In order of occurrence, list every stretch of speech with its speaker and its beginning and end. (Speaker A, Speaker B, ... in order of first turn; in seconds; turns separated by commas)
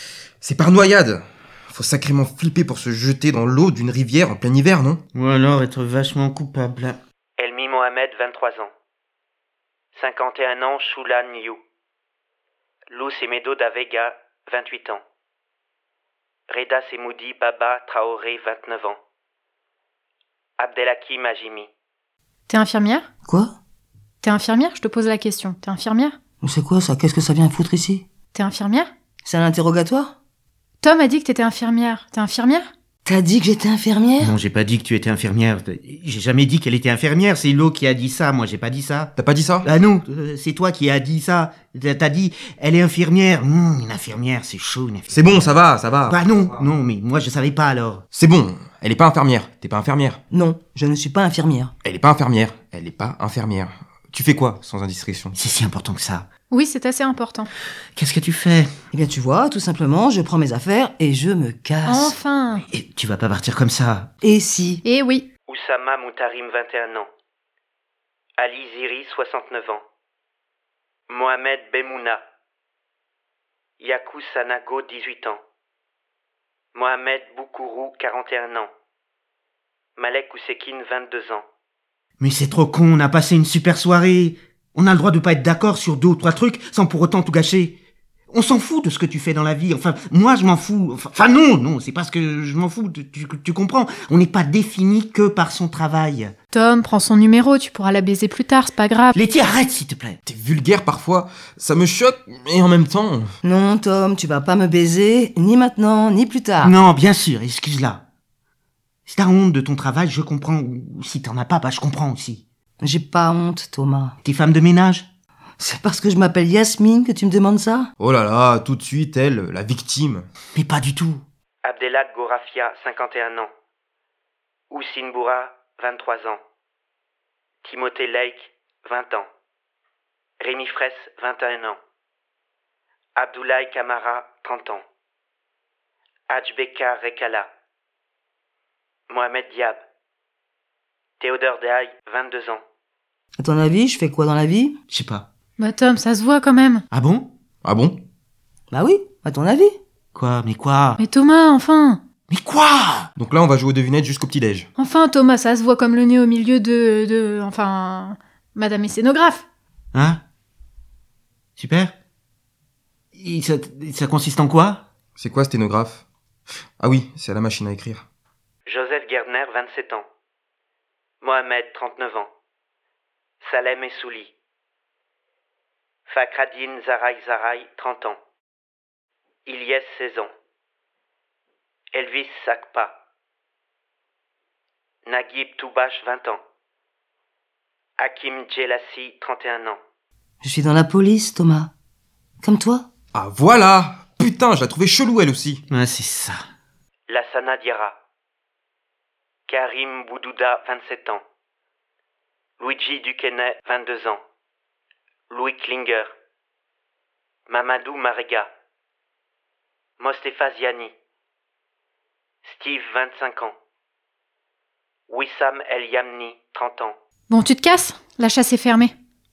Speaker A: 0.4-5.0, Speaker B: 5.1-7.0, Speaker C: 7.4-8.7, Speaker C: 9.9-11.6, Speaker C: 12.9-15.0, Speaker C: 16.5-19.0, Speaker C: 20.6-21.7, Speaker D: 22.5-23.1, Speaker E: 23.2-23.5, Speaker D: 24.2-26.2, Speaker E: 26.4-28.0, Speaker D: 28.3-28.9, Speaker E: 29.2-30.1, Speaker D: 30.8-32.7, Speaker E: 33.0-34.4, Speaker B: 34.2-39.1, Speaker A: 39.1-39.7, Speaker B: 39.6-45.5, Speaker A: 45.1-46.2, Speaker B: 46.1-48.0, Speaker A: 48.1-50.2, Speaker E: 50.3-51.7, Speaker A: 51.8-55.3, Speaker B: 55.3-56.2, Speaker D: 56.5-57.5, Speaker B: 58.0-58.7, Speaker E: 58.9-62.2, Speaker D: 61.9-62.6, Speaker B: 62.7-64.1, Speaker E: 64.2-64.8, Speaker D: 64.8-65.3, Speaker C: 65.5-67.1, Speaker C: 68.4-69.8, Speaker C: 71.1-72.2, Speaker C: 73.8-75.4, Speaker C: 76.7-78.7, Speaker C: 80.0-81.4, Speaker B: 82.2-87.8, Speaker B: 88.3-96.3, Speaker D: 96.5-99.2, Speaker B: 99.1-100.2, Speaker A: 100.2-103.3, Speaker E: 103.4-106.8, Speaker B: 106.6-108.0, Speaker B: 109.1-112.4, Speaker E: 112.8-114.2, Speaker B: 114.2-115.0, Speaker E: 115.6-117.9, Speaker A: 118.0-120.3, Speaker B: 120.5-121.2, Speaker C: 121.6-123.5, Speaker C: 124.7-126.4, Speaker C: 127.6-129.3, Speaker C: 130.4-131.8, Speaker C: 133.2-134.8, Speaker C: 136.3-137.5, Speaker C: 139.1-139.8, Speaker C: 141.2-142.6, Speaker E: 143.4-144.8, Speaker B: 144.9-145.3, Speaker D: 145.6-146.8, Speaker B: 146.9-147.3, Speaker A: 147.6-148.0, Speaker E: 148.7-149.8, Speaker B: 150.1-151.0, Speaker D: 151.0-152.0, Speaker B: 152.3-153.1, Speaker A: 153.2-154.7, Speaker D: 154.8-159.4, Speaker B: 159.9-160.2, Speaker B: 161.6-161.9, Speaker B: 163.2-164.8, Speaker A: 165.2-166.0, Speaker A: 166.8-168.1, Speaker C: 168.7-170.0, Speaker C: 171.2-172.3, Speaker C: 173.4-174.3, Speaker C: 176.1-178.2, Speaker C: 179.4-180.3, Speaker C: 181.9-182.9, Speaker C: 185.1-186.4, Speaker C: 188.0-189.8, Speaker E: 190.4-191.7, Speaker E: 192.4-192.8, Speaker A: 193.1-195.6, Speaker B: 195.7-196.4, Speaker C: 197.1-197.9, Speaker C: 199.5-201.2, Speaker C: 202.6-204.2, Speaker C: 205.3-206.1, Speaker C: 207.5-208.5, Speaker C: 210.0-210.9, Speaker C: 212.4-213.5, Speaker C: 215.1-216.9, Speaker D: 217.3-218.9